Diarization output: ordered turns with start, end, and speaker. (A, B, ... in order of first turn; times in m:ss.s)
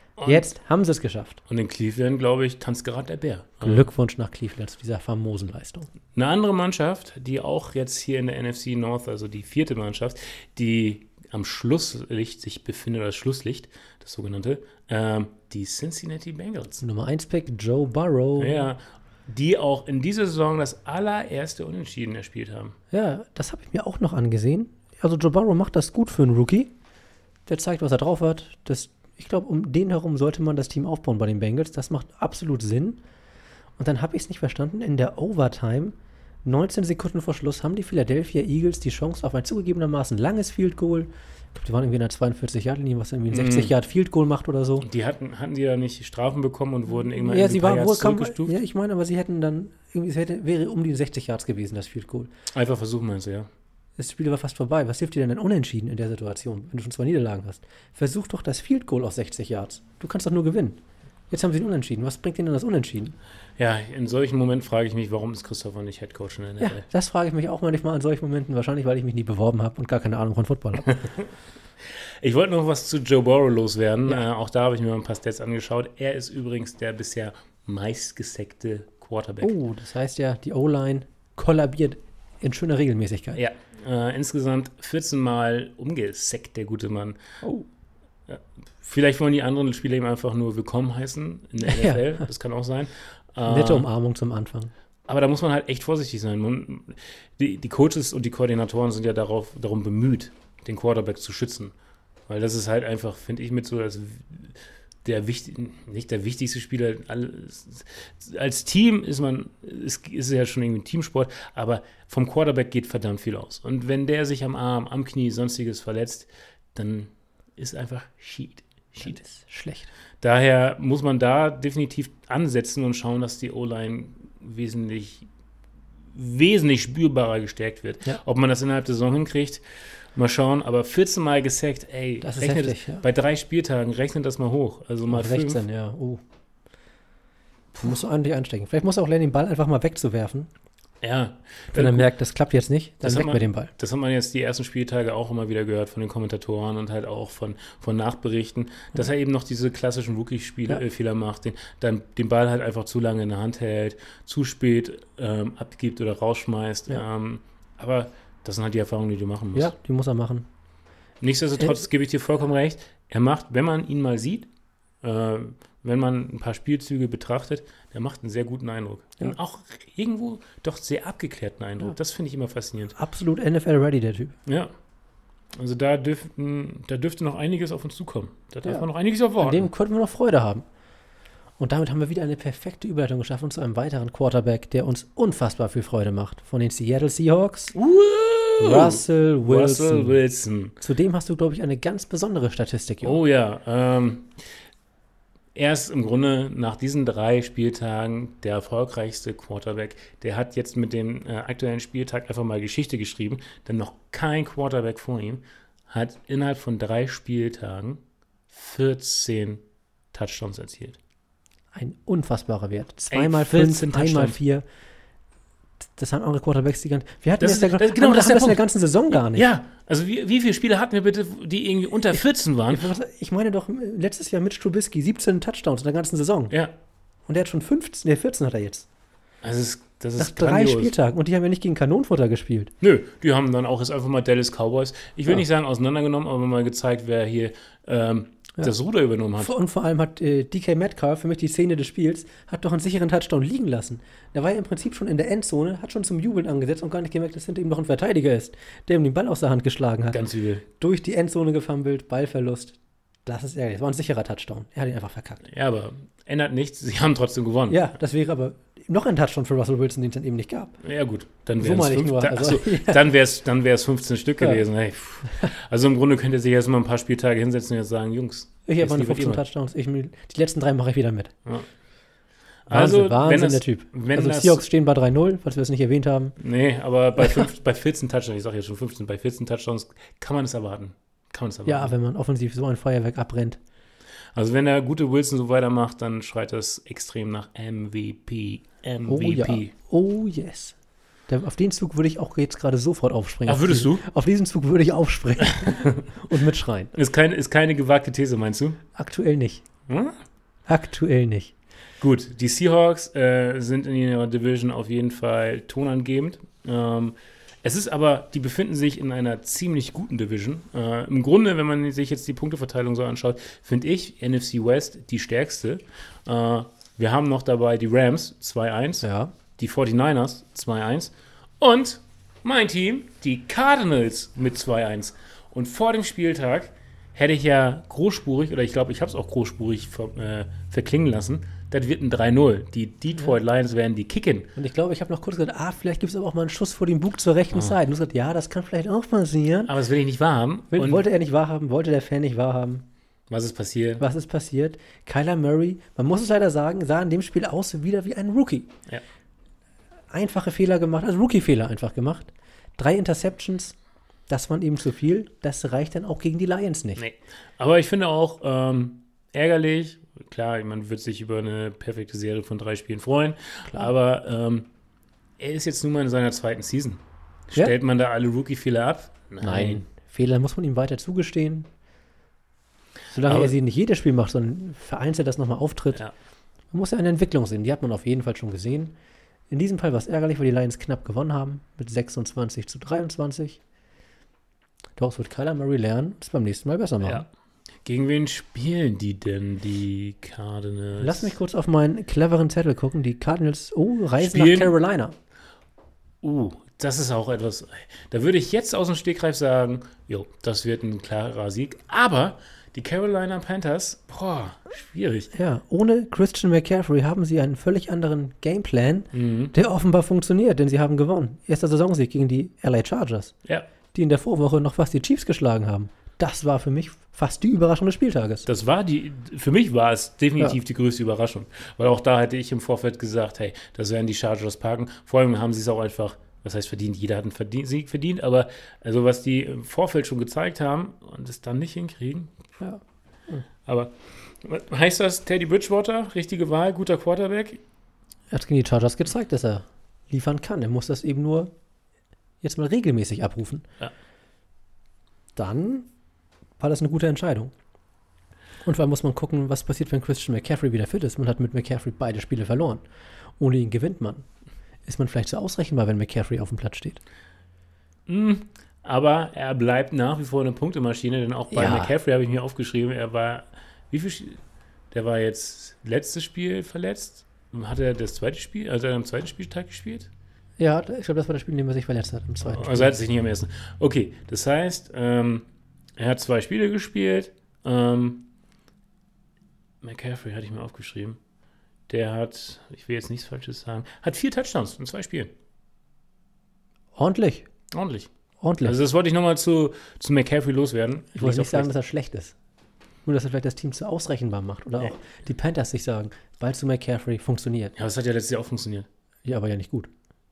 0:00.2-0:00.4 A
0:00.2-0:01.4 B
0:01.5-0:03.9 A
0:03.6-0:05.9 B
0:06.1-0:16.8 A
0:16.8-0:18.7 B
0:18.4-0:22.8 A
0:22.9-0:26.7 B
0:27.5-0:33.0 B
0:33.8-0:44.8 B
0:43.3-0:43.7 A
0:44.8-0:48.5 A
0:47.2-0:52.3 B
0:52.5-0:53.5 A
0:54.0-1:00.8 B
1:01.3-1:03.2 B
1:03.6-1:06.8 A
1:06.6-1:11.0 B
1:10.8-1:11.3 A
1:11.8-1:19.5 A
1:19.4-1:23.4 B
1:23.4-1:27.2 A
1:28.3-1:33.9 A
1:31.6-1:32.2 B
1:33.4-1:34.7 B
1:35.0-1:41.7 A
1:42.3-1:59.2 A
1:59.0-1:59.9 B
2:00.2-2:05.3 A
2:06.1-2:15.6 A
2:12.2-2:13.0 B
2:15.1-2:16.2 B
2:17.8-2:20.5 B
2:21.0-2:22.1 A
2:21.7-2:23.7 B
2:23.0-2:39.7 A
2:39.5-2:40.5 B
2:41.2-2:44.5 A
2:45.0-2:52.9 A
2:53.0-2:54.4 B
2:54.4-2:54.7 A
2:55.5-2:59.7 A
2:59.4-3:00.6 B
3:01.6-3:07.7 B
3:07.7-3:10.7 A
3:08.6-3:10.2 B
3:10.8-3:13.2 B
3:13.0-3:14.4 A
3:15.5-3:31.0 A
3:31.7-3:34.6 B
3:33.1-3:34.4 A
3:36.0-3:39.5 B
3:37.4-3:42.9 A
3:42.7-3:46.5 B
3:47.3-3:48.8 B
3:49.4-3:50.9 A
3:50.2-3:52.7 B
3:52.8-3:59.5 A
3:59.4-4:10.2 B
4:10.1-4:10.6 A
4:10.8-4:15.4 B
4:15.4-4:17.8 A
4:17.7-4:20.7 B
4:20.8-4:29.4 A
4:21.6-4:23.0 B
4:25.2-4:25.5 B
4:28.6-4:31.3 B
4:32.6-4:34.6 A
4:32.7-4:36.4 B
4:36.4-4:41.9 A
4:37.2-4:37.5 B
4:41.6-4:43.6 B
4:44.3-4:49.7 A
4:49.1-4:50.8 B
4:51.3-4:56.9 B
4:53.5-4:54.0 A
4:55.6-4:55.9 A
4:56.9-4:58.8 A
4:58.9-4:59.6 B
4:59.9-5:00.1 A
5:00.7-5:01.5 B
5:02.0-5:34.5 A
5:19.0-5:19.3 B
5:34.6-5:39.7 B
5:39.6-5:41.0 A
5:40.7-5:42.8 B
5:43.3-5:44.0 A
5:44.0-5:48.7 B
5:50.1-5:53.8 B
5:54.3-5:57.0 B
5:57.0-6:04.7 A
6:05.4-6:09.8 A
6:09.4-6:11.7 B
6:13.1-6:16.0 B
6:13.3-6:13.5 A
6:16.7-6:18.9 B
6:19.5-6:23.6 B
6:25.0-6:27.2 B
6:27.8-6:31.3 A
6:31.0-6:35.2 B
6:34.2-6:34.7 A
6:36.2-6:45.3 A
6:45.3-6:53.3 B
6:49.1-6:49.5 A
6:53.9-6:58.4 B
6:58.4-7:12.3 A
7:12.6-7:13.4 B
7:13.6-7:17.6 A
7:18.3-7:21.5 B
7:22.4-7:23.6 B
7:25.4-7:25.9 B
7:26.6-7:27.5 B
7:28.6-7:32.8 B
7:33.4-7:34.2 B
7:34.8-7:37.0 B
7:38.1-7:50.1 A
7:41.5-7:41.9 B
7:50.6-7:52.9 B
7:52.4-7:58.3 A
7:59.8-8:01.2 A
8:01.9-8:05.3 A
8:06.9-8:07.5 B
8:07.7-8:08.1 A
8:08.4-8:08.8 B
8:08.6-8:11.7 A
8:11.1-8:12.3 B
8:13.0-8:17.7 B
8:17.8-8:18.9 A
8:19.2-8:19.9 B